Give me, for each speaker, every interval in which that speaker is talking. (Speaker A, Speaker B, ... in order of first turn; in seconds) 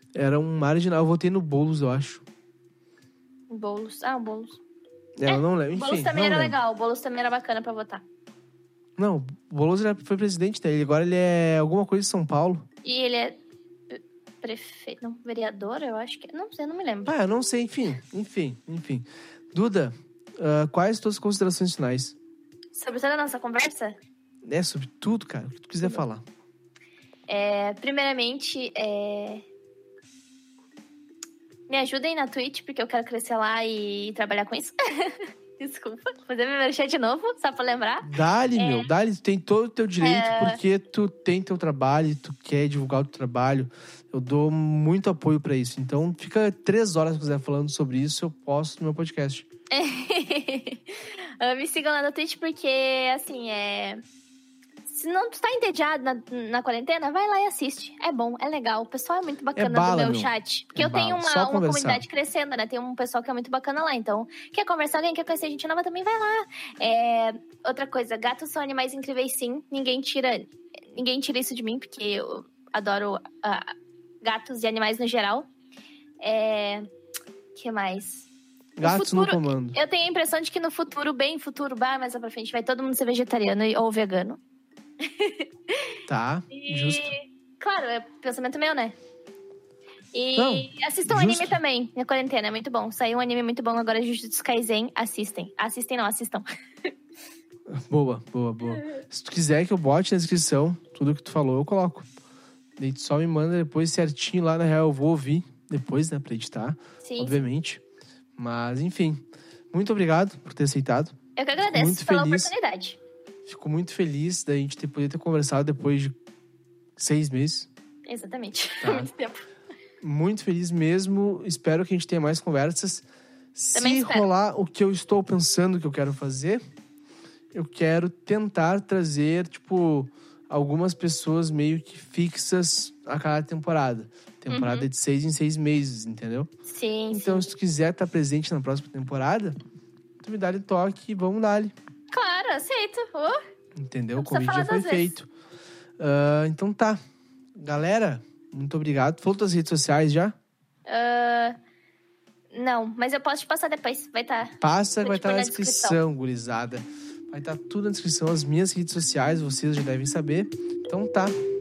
Speaker A: 0.1-2.2, 5.2-6.6, 9.0-12.7, 17.1-22.2, 24.5-26.2, 38.0-49.5, 59.6-62.0, 78.8-79.8, 86.1-87.1, 90.4-91.6, 97.7-102.0, 102.8-107.8, 108.4-109.2, 109.7-112.5, 113.5-116.1, 117.0-117.7, 118.8-119.1, 120.0-126.6, 127.5-136.5, 137.1-139.6, 140.2-141.7, 143.8-145.3, 146.0-147.0, 147.6-150.4, 154.6-161.3
Speaker B: 3.5-4.6, 5.3-8.1, 12.8-13.4, 13.9-17.1, 22.7-24.0, 27.3-29.4, 31.7-38.9, 40.0-40.6, 49.7-54.0, 54.9-75.5, 76.2-76.9, 77.5-78.3, 78.8-84.4, 85.0-85.9, 86.5-89.0, 90.1-96.9, 107.0-107.4, 111.4-113.0, 118.1-119.4, 123.8-124.3, 134.5-134.9, 136.7-137.5, 142.1-143.4, 144.2-145.1, 150.9-151.6, 152.5-156.0